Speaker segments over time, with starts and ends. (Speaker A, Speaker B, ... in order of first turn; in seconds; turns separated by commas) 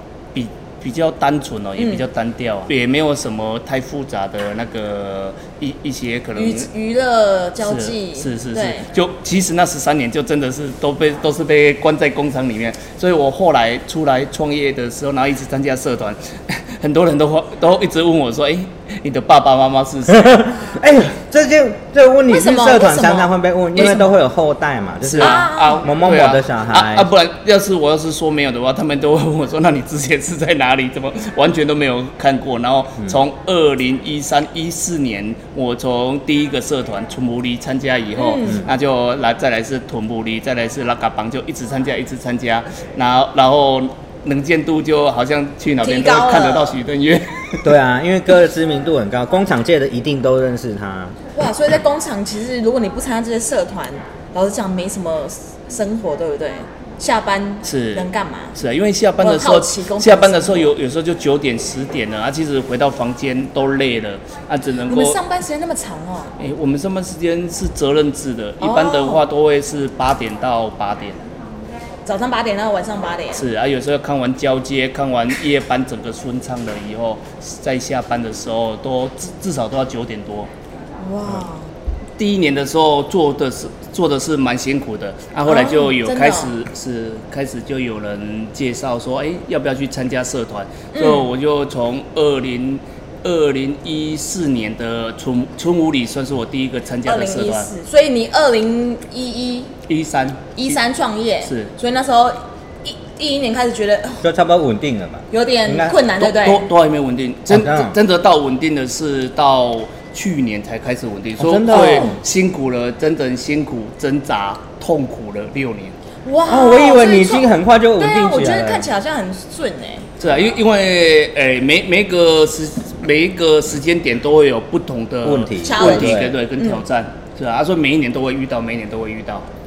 Speaker A: 0.3-6.7, Speaker B: 1.8-2.1, Speaker B: 6.3-8.9, Speaker A: 7.6-20.6, Speaker C: 20.1-27.1, Speaker B: 22.3-24.1, Speaker A: 25.0-47.7, Speaker B: 25.2-25.9, Speaker B: 38.2-38.7, Speaker B: 45.8-46.8, Speaker C: 47.6-51.2, Speaker B: 51.4-58.6, Speaker A: 57.6-65.2, Speaker B: 59.2-60.7, Speaker B: 64.9-66.3, Speaker A: 66.4-71.2, Speaker B: 68.6-69.2, Speaker B: 72.0-73.5, Speaker A: 73.3-80.5, Speaker B: 81.0-81.7, Speaker A: 82.2-97.7, Speaker B: 85.5-86.5, Speaker B: 90.9-91.3, Speaker B: 97.0-99.7, Speaker A: 99.9-100.8, Speaker B: 100.5-104.2, Speaker A: 101.4-101.7, Speaker C: 104.2-106.0, Speaker B: 105.3-106.7, Speaker A: 106.2-116.0, Speaker C: 107.5-108.0, Speaker C: 111.4-112.2, Speaker B: 111.7-112.1, Speaker B: 116.2-120.1, Speaker C: 116.5-118.9, Speaker A: 120.2-129.5, Speaker C: 125.2-126.3, Speaker B: 125.6-126.8